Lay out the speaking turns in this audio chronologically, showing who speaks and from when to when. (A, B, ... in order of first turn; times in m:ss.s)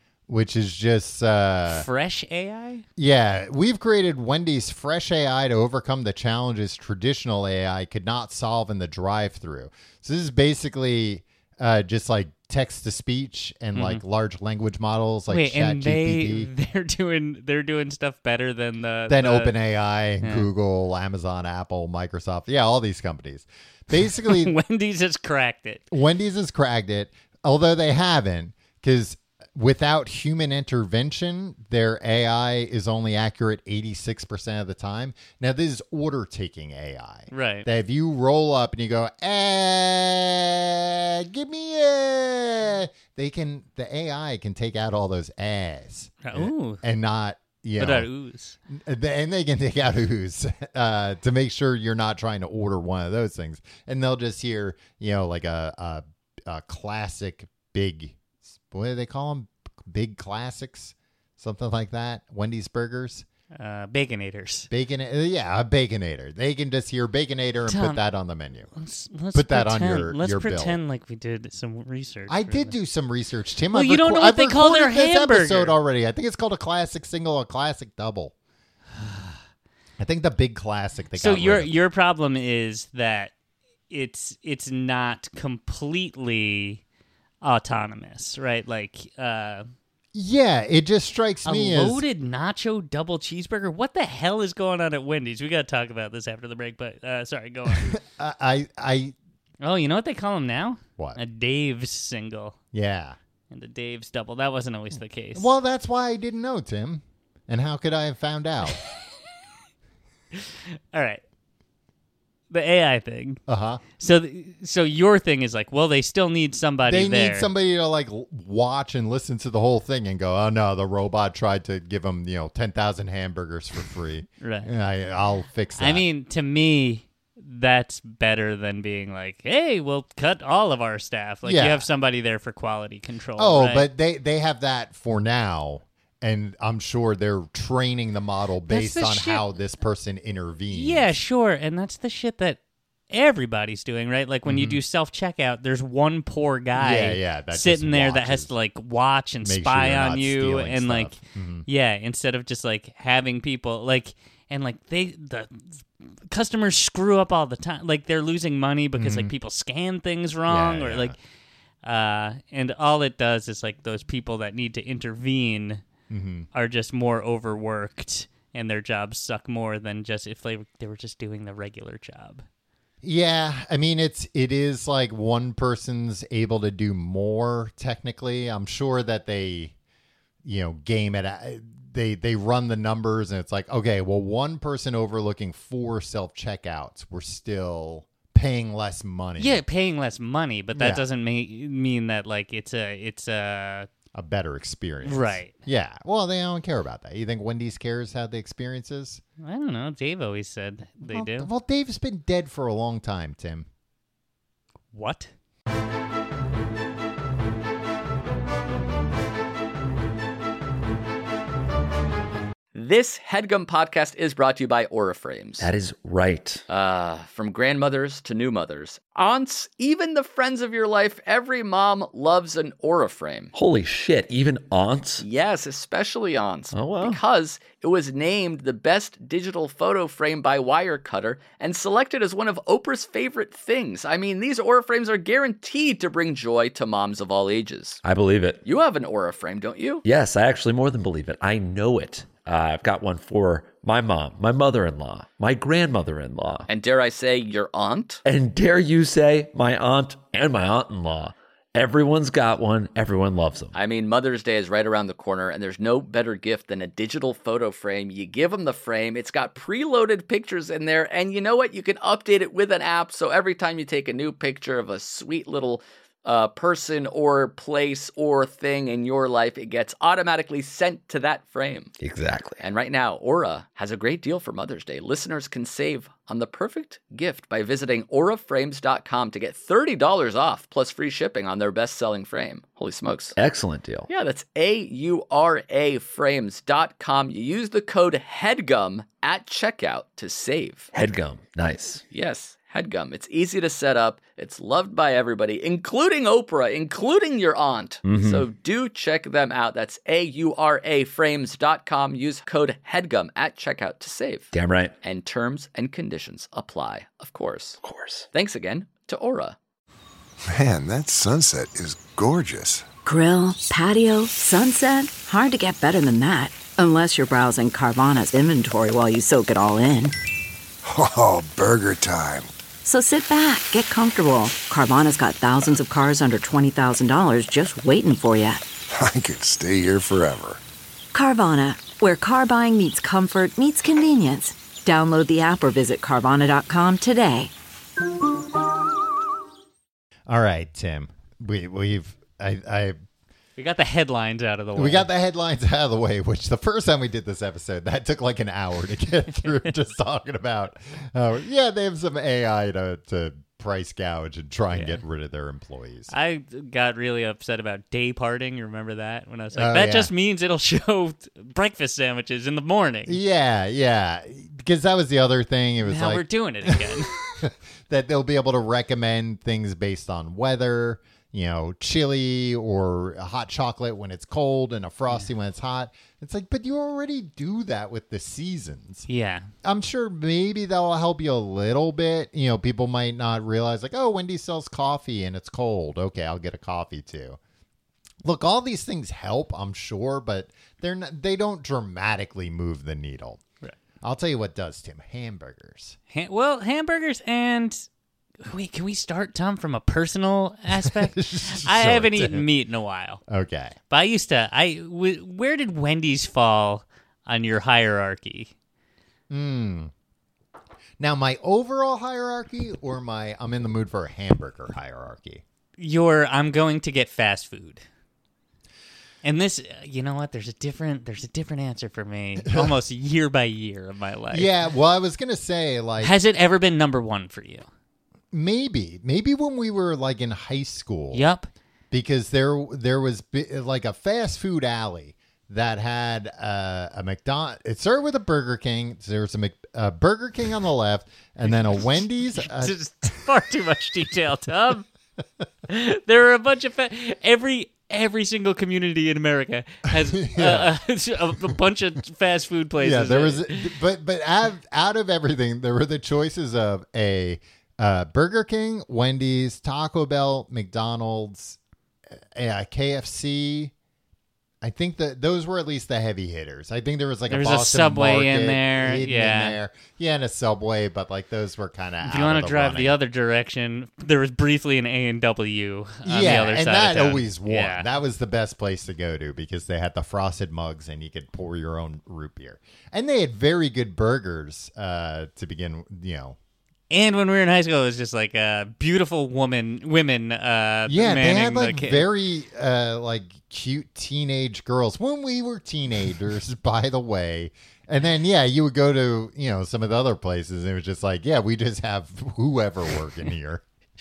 0:00.3-0:01.9 A
0:01.7-0:02.8 B
0:03.0-0:16.5 A
0:13.7-0:14.0 B
0:15.3-0:19.5 B
0:19.1-0:24.6 A
0:20.2-0:20.5 B
0:24.0-0:25.9 B
0:25.9-0:48.1 A
0:37.3-0:37.7 B
0:46.2-0:46.8 B
0:47.8-0:48.6 B
0:48.7-1:03.3 A
1:03.5-1:04.7 B
1:04.7-1:08.7 A
1:07.7-1:08.0 B
1:08.8-1:12.8 B
1:09.3-1:10.8 A
1:12.3-1:18.3 A
1:13.7-1:15.8 B
1:19.0-1:19.4 B
1:20.0-1:21.7 A
1:21.2-1:23.3 B
1:23.9-1:26.8 B
1:27.4-1:29.7 B
1:30.1-1:32.0 A
1:31.4-1:38.0 B
1:37.7-1:39.2 A
1:39.6-1:42.6 B
1:42.7-1:43.2 A
1:43.5-1:45.5 B
1:45.4-1:48.8 A
1:50.9-1:51.2 B
1:52.5-1:53.4 B
1:53.5-1:53.8 A
1:54.0-1:57.5 B
1:56.9-2:06.0 A
2:04.4-2:04.7 B
2:05.8-2:13.9 B
2:11.4-2:11.9 A
2:13.4-2:21.1 A
2:18.7-2:19.5 B
2:20.7-2:22.6 B
2:23.1-2:41.2 B
2:24.5-2:24.8 A
2:26.8-2:28.5 A
2:29.4-2:31.7 A
2:39.0-2:39.3 A
2:40.5-2:41.2 A
2:41.8-2:45.8 B
2:46.1-2:46.5 A
2:46.5-2:52.4 B
2:53.0-2:59.7 A
3:00.4-3:09.6 A
3:09.4-3:13.9 B
3:10.7-3:11.1 A
3:14.1-3:19.2 A
3:15.0-3:15.6 B
3:19.4-3:21.5 B
3:21.0-3:23.7 A
3:24.9-3:25.3 B
3:32.7-3:35.7 C
3:35.6-3:36.6 D
3:36.7-3:43.5 C
3:43.5-3:45.2 D
3:45.2-3:58.0 C
3:46.7-3:47.2 D
3:58.0-3:58.6 D
3:58.6-4:00.0 C
4:00.0-4:06.7 D
4:06.7-4:08.2 C
4:08.2-4:13.8 D
4:13.7-4:31.9 C
4:32.0-4:32.6 D
4:32.6-4:43.4 C
4:43.4-4:44.1 D
4:44.1-4:50.9 C
4:50.9-4:52.0 D
4:52.1-5:04.5 C
4:58.0-4:58.5 D
5:04.5-5:05.0 D
5:05.0-5:07.8 C
5:07.8-5:08.3 D
5:08.3-5:09.6 C
5:10.5-5:12.9 E
5:13.0-5:20.2 F
5:20.8-5:22.5 E
5:22.8-5:28.6 F
5:28.9-5:30.6 E
5:31.1-5:37.5 F
5:40.3-5:43.0 A
5:43.6-5:45.1 B
5:44.8-5:56.1 A
5:54.7-5:55.0 B
5:56.1-6:03.2 B
5:59.5-6:00.1 A
6:03.1-6:19.1 A
6:05.8-6:07.2 B
6:19.1-6:19.5 B
6:19.6-6:27.4 A
6:28.2-6:33.4 A
6:34.0-6:36.0 A
6:36.1-6:37.9 B
6:38.4-6:43.2 B
6:40.7-6:42.5 A
6:43.3-6:43.8 A
6:43.9-6:48.5 B
6:49.3-6:49.9 A
6:51.0-6:55.4 A
6:55.8-6:57.8 B
6:59.2-7:04.5 B
7:02.5-7:02.7 A
7:04.3-7:06.1 A
7:06.0-7:07.7 B
7:08.3-7:11.3 A
7:11.1-7:11.5 B
7:11.9-7:22.8 A
7:21.5-7:24.9 B
7:25.7-7:33.7 B
7:29.9-7:30.8 A
7:32.8-7:41.6 A
7:42.2-7:43.7 A
7:44.6-7:53.0 A
7:47.3-7:49.6 B
7:52.0-7:57.9 B
7:56.0-8:06.4 A
8:06.9-8:12.1 B
8:10.9-8:23.6 A